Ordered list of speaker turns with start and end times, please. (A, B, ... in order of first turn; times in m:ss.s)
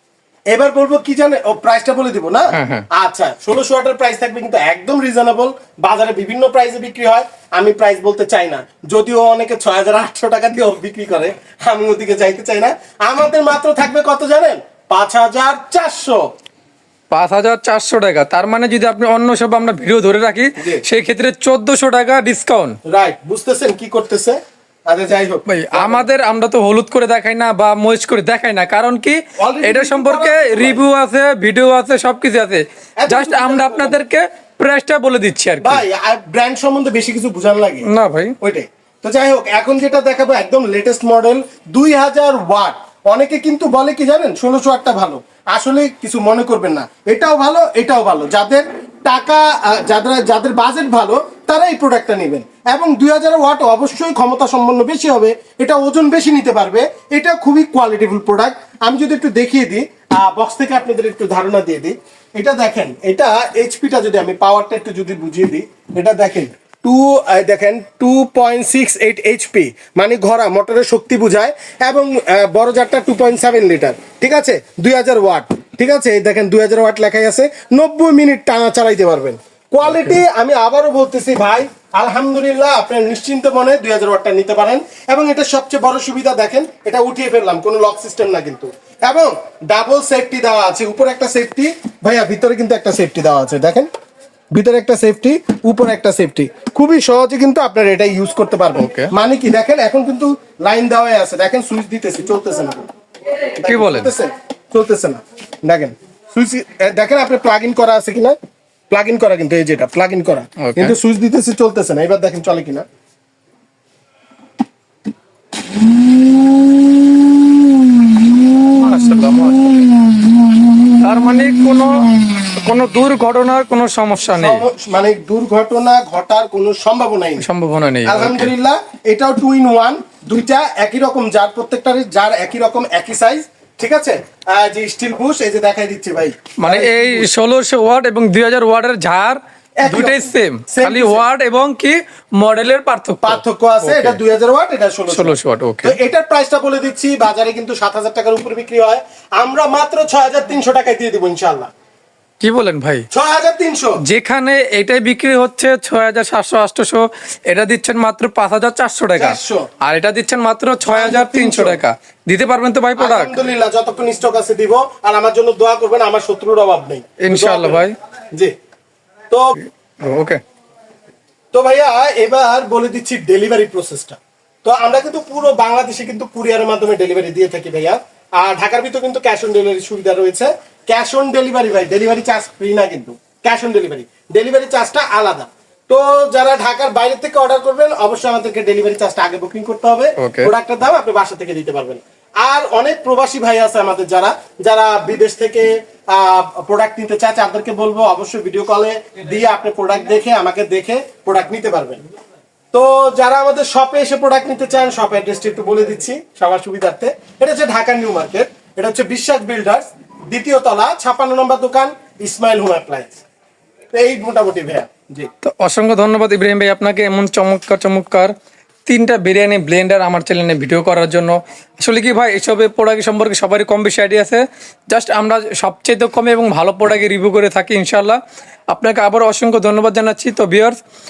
0:00.5-0:16.2 A
0:02.5-0:02.8 B
0:17.1-0:22.8 B
0:20.6-0:20.8 A
0:22.8-0:26.1 A
0:25.5-0:35.8 B
0:29.4-0:30.8 A
0:33.0-0:34.0 A
0:35.6-0:37.9 A
0:37.8-0:38.4 B
0:38.4-1:33.9 A
1:19.8-1:20.2 B
1:34.5-1:42.8 A
1:38.8-1:39.1 B
1:43.6-1:48.4 A
1:43.7-1:44.1 B
1:48.9-1:52.8 A
1:50.6-1:51.0 B
1:58.7-1:59.9 B
2:01.0-2:04.6 B
2:04.4-2:07.5 A
2:07.4-2:08.5 B
2:08.1-2:17.3 A
2:16.6-2:24.2 B
2:19.8-2:21.2 A
2:23.2-2:31.7 A
2:25.1-2:26.0 B
2:32.4-2:33.1 B
2:33.1-2:34.0 A
2:34.0-2:43.4 B
2:39.2-2:39.7 A
2:40.8-2:41.8 A
2:43.0-2:48.5 A
2:47.2-2:48.0 B
2:49.3-2:49.6 A
2:49.6-2:50.4 B
2:51.5-3:22.0 A
3:10.2-3:10.5 B
3:22.7-3:33.2 A
3:33.9-3:35.3 A
3:35.4-3:38.3 B
3:38.9-3:50.8 B